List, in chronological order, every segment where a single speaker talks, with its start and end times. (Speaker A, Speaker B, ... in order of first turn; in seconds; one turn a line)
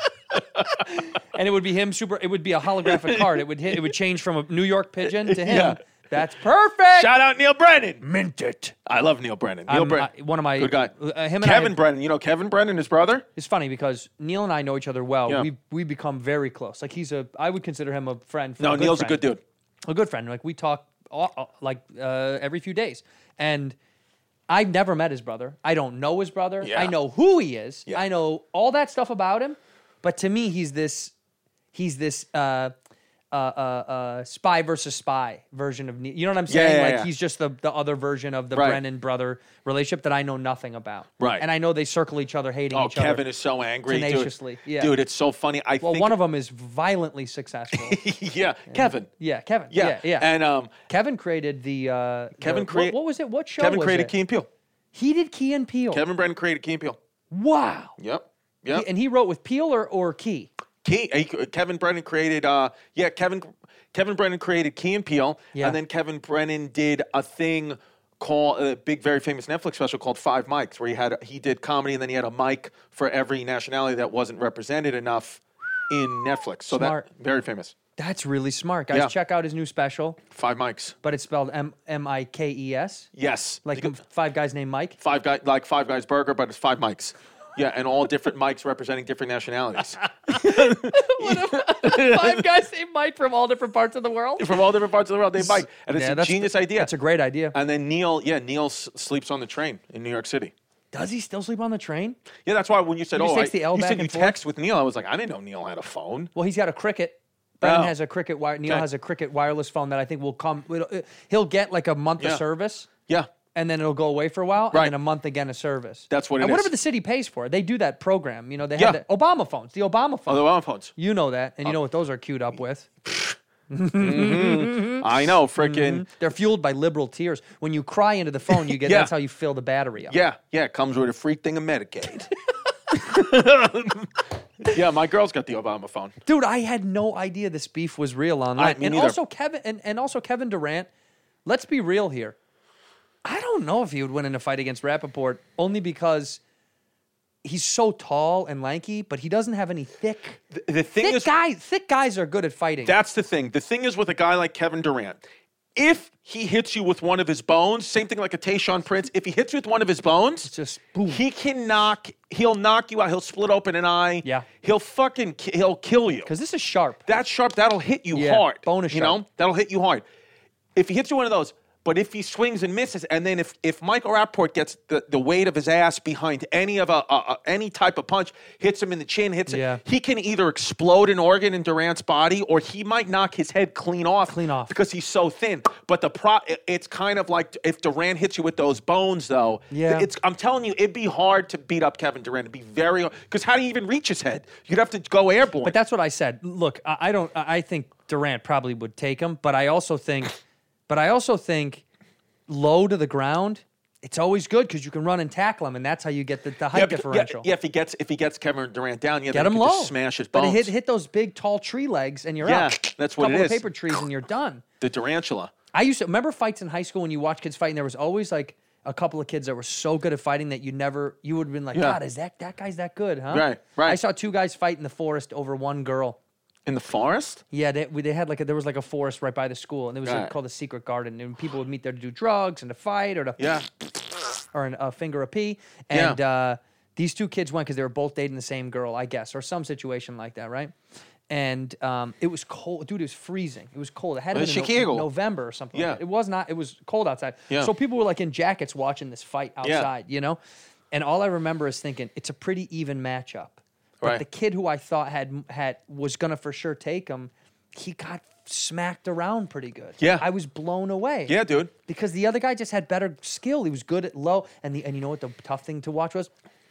Speaker A: 0.3-0.8
Speaker B: 0.8-7.1
Speaker A: 2.9-3.4
Speaker A: 5.0-5.8
Speaker A: 6.9-8.0
Speaker B: 8.0-8.8
Speaker A: 8.8-13.3
Speaker B: 9.7-11.8
Speaker B: 13.4-19.2
Speaker A: 18.6-19.4
Speaker B: 19.9-23.8
Speaker B: 24.5-31.1
Speaker A: 26.6-26.9
Speaker B: 31.7-32.7
Speaker B: 33.3-43.2
Speaker A: 36.5-37.1
Speaker A: 38.5-38.8
Speaker A: 41.2-41.5
Speaker A: 42.7-46.1
Speaker B: 43.9-45.0
Speaker B: 45.8-48.0
Speaker A: 47.7-49.1
Speaker B: 48.7-50.3
Speaker A: 49.7-50.7
Speaker B: 50.9-54.1
Speaker A: 52.4-53.0
Speaker A: 53.6-54.5
Speaker B: 54.9-56.0
Speaker A: 55.9-57.0
Speaker B: 57.3-58.0
Speaker A: 58.0-58.9
Speaker B: 58.7-60.5
Speaker A: 60.8-77.8
Speaker B: 76.7-77.1
Speaker B: 78.0-80.2
Speaker A: 80.3-81.0
Speaker B: 81.0-83.1
Speaker A: 83.2-83.9
Speaker B: 83.7-85.0
Speaker A: 85.0-92.4
Speaker B: 90.0-94.6
Speaker A: 94.4-96.9
Speaker B: 95.4-97.6
Speaker A: 97.5-100.5
Speaker B: 100.9-102.2
Speaker A: 102.5-106.3
Speaker B: 103.2-104.4
Speaker B: 106.3-112.9
Speaker A: 107.6-107.9
Speaker B: 113.5-122.9
Speaker A: 116.1-116.7
Speaker A: 120.3-120.9
Speaker A: 123.0-123.4
Speaker B: 123.7-125.1
Speaker A: 124.0-126.0
Speaker B: 125.6-130.2
Speaker A: 128.5-129.1
Speaker A: 130.1-132.3
Speaker A: 132.9-136.2
Speaker B: 136.3-140.9
Speaker A: 138.6-139.2
Speaker B: 141.5-142.4
Speaker B: 143.2-146.4
Speaker B: 147.4-150.4
Speaker A: 150.5-151.3
Speaker B: 151.0-152.9
Speaker A: 152.9-155.2
Speaker A: 155.8-160.5
Speaker B: 160.5-161.2
Speaker A: 161.1-166.3
Speaker B: 166.3-167.1
Speaker A: 167.1-170.1
Speaker B: 168.1-169.2
Speaker A: 170.8-195.8
Speaker B: 179.5-179.8
Speaker B: 184.3-184.8
Speaker B: 189.7-190.1
Speaker B: 195.6-200.4
Speaker B: 200.9-201.8
Speaker B: 202.5-207.5
Speaker A: 206.7-210.7
Speaker B: 209.3-214.6
Speaker A: 212.4-214.0
Speaker A: 214.8-215.5
Speaker B: 215.7-226.2
Speaker A: 221.7-222.0
Speaker A: 223.3-224.0
Speaker A: 226.7-227.4
Speaker B: 227.5-233.6
Speaker A: 230.1-230.3
Speaker A: 233.4-233.7
Speaker B: 234.5-240.7
Speaker A: 235.9-236.2
Speaker B: 241.3-250.4
Speaker A: 244.3-245.1
Speaker A: 245.7-246.0
Speaker A: 249.6-249.9
Speaker B: 250.9-266.3
Speaker A: 260.0-260.3
Speaker A: 261.3-261.7